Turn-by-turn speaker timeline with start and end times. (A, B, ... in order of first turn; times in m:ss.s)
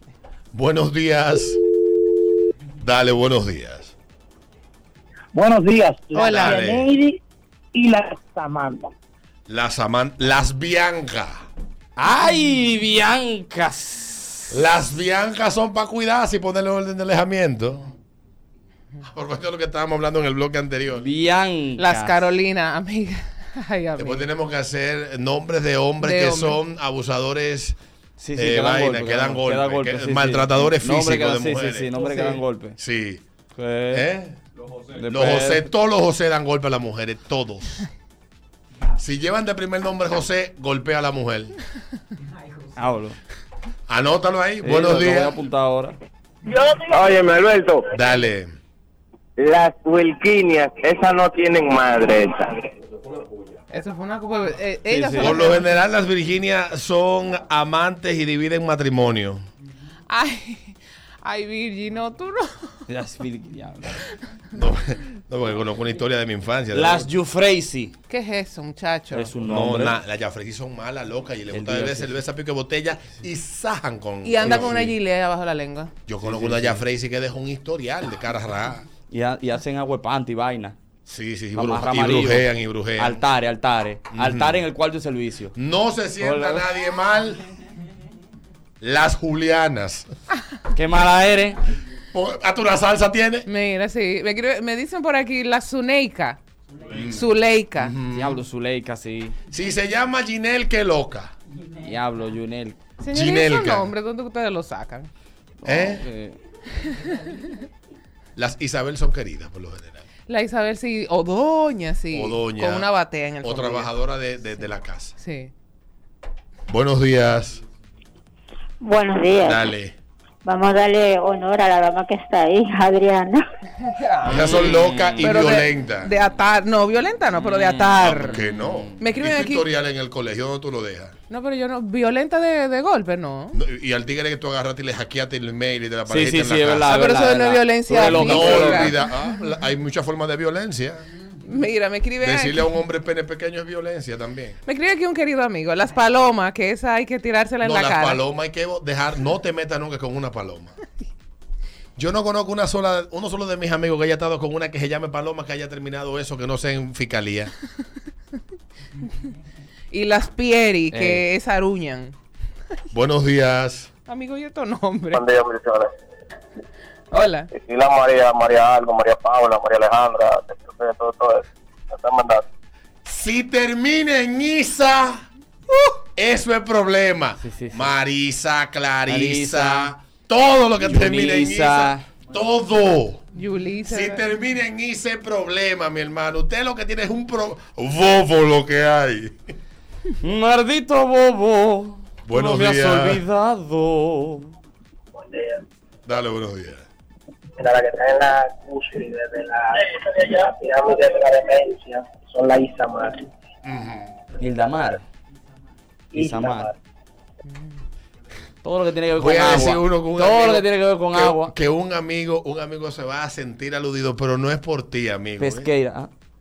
0:00.5-0:01.6 A
0:02.8-0:03.9 A
0:06.1-0:06.6 B
0:06.2-0:06.9 A
0:09.5-0:11.5 A
0:12.0-0:14.6 C
0:14.5-0:17.9 A
0:19.0-0:21.1 A
0:21.0-0:22.2 C
0:21.8-0:24.3 B
0:24.0-0:27.8 A
0:26.0-0:26.6 B
0:28.2-0:32.8 C
0:28.3-0:32.1 A
0:31.9-0:32.4 B
0:32.8-0:33.2 A
0:33.6-0:34.0 C
0:33.9-0:34.4 A
0:34.9-0:35.7 C
0:35.1-0:37.8 A
0:39.0-0:41.6 A
0:42.8-0:43.2 C
0:43.9-0:45.3 A
0:44.6-0:46.0 C
0:46.9-0:47.9 D
0:47.9-0:48.5 A
0:49.4-0:52.4 D
0:53.7-0:55.7 B
0:54.9-0:55.5 C
0:55.2-0:59.4 A
1:00.1-1:02.8 B
1:02.9-1:04.0 C
1:04.5-1:07.1 A
1:06.7-1:07.9 C
1:08.1-1:09.3 B
1:09.1-1:10.0 C
1:09.4-1:14.9 A
1:11.5-1:12.2 C
1:14.2-1:15.9 B
1:14.4-1:14.7 C
1:16.1-1:18.9 A
1:16.2-1:16.8 C
1:19.1-1:20.8 C
1:21.0-1:23.2 A
1:21.5-1:25.5 C
1:24.1-1:24.6 A
1:25.6-1:27.4 A
1:26.2-1:26.7 C
1:28.8-1:30.1 A
1:30.7-1:31.6 C
1:32.1-1:33.4 A
1:33.4-1:36.4 B
1:36.9-1:38.4 A
1:36.9-1:37.9 B
1:38.1-1:39.4 C
1:39.5-1:41.3 A
1:41.8-1:42.8 C
1:43.0-1:45.1 B
1:43.1-1:43.9 A
1:45.6-1:46.4 C
1:45.6-1:46.0 A
1:48.4-1:50.0 A
1:50.3-1:53.9 B
1:52.1-1:52.9 A
1:53.4-1:55.1 A
1:55.2-1:55.5 B
1:56.7-1:57.6 A
1:58.8-1:59.7 E
1:59.4-2:00.0 A
2:00.4-2:03.4 E
2:03.8-2:04.7 B
2:04.2-2:05.4 C
2:04.2-2:06.1 A
2:05.2-2:08.4 B
2:07.3-2:09.0 C
2:08.0-2:11.1 A
2:09.0-2:09.6 B
2:11.3-2:13.6 B
2:13.5-2:17.0 A
2:16.0-2:19.0 C
2:16.9-2:18.9 B
2:18.0-2:21.0 A
2:21.4-2:22.7 B
2:22.2-2:24.6 A
2:24.6-2:28.2 B
2:27.6-2:30.7 A
2:32.0-2:37.5 A
2:39.9-2:42.2 B
2:40.9-2:41.2 C
2:42.9-2:43.9 A
2:44.1-2:45.2 B
2:45.2-2:45.8 D
2:47.1-2:47.5 B
2:47.5-2:52.4 D
2:53.0-2:55.2 A
2:56.2-3:03.2 A
2:57.4-2:57.9 C
2:59.1-2:59.9 C
3:00.8-3:02.1 C
3:03.3-3:04.2 B
3:03.9-3:09.4 A
3:10.2-3:14.5 C
3:12.2-3:13.2 A
3:15.1-3:15.6 F
3:16.0-3:16.8 A
3:17.6-3:23.2 F
3:23.6-3:24.1 A
3:24.4-3:25.0 C
3:26.1-3:26.7 F
3:26.1-3:26.7 C
3:27.5-3:27.8 B
3:28.6-3:31.5 C
3:29.1-3:35.7 A
3:35.4-3:36.1 C